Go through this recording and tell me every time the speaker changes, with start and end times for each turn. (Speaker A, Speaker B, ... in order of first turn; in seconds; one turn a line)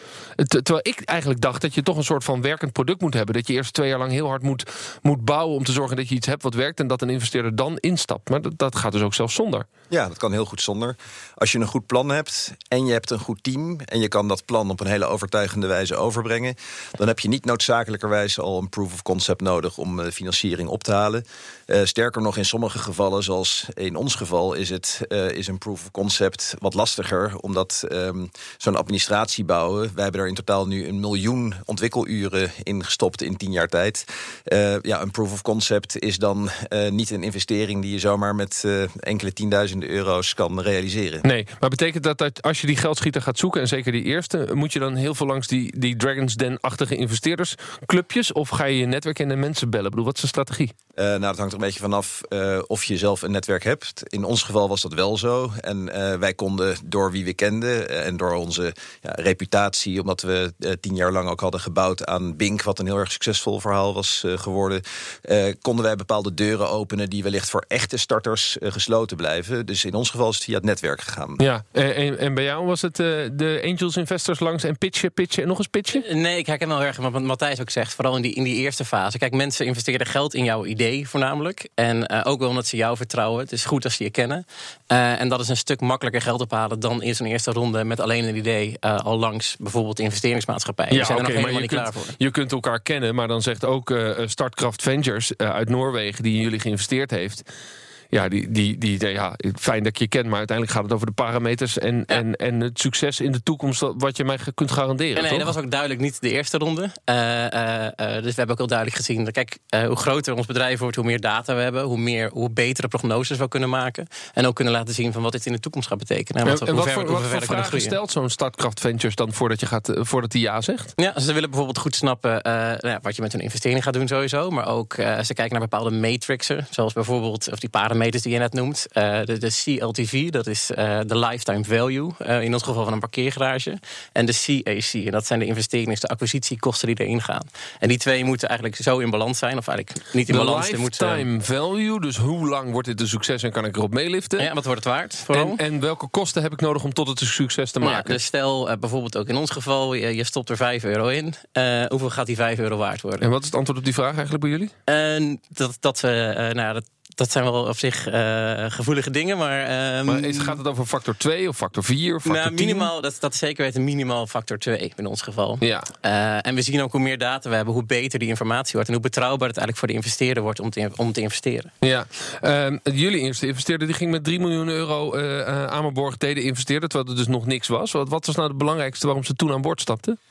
Speaker A: 0.4-9.7
Speaker B: 9.9-41.2
Speaker A: 41.2-50.7
Speaker B: 51.0-71.4
Speaker A: 71.4-76.0
Speaker C: 75.9-92.2
Speaker A: 90.9-97.4
Speaker A: 98.1-105.5
Speaker C: 105.2-117.9
Speaker A: 116.4-120.9
Speaker C: 121.0-141.2
Speaker A: 140.3-144.5
Speaker C: 144.4-145.6
Speaker A: 145.3-148.2
Speaker C: 147.8-153.3
Speaker A: 153.2-154.7
Speaker C: 154.9-160.6
Speaker A: 160.1-162.9
Speaker C: 162.2-171.7
Speaker A: 165.6-165.9
Speaker A: 171.8-180.2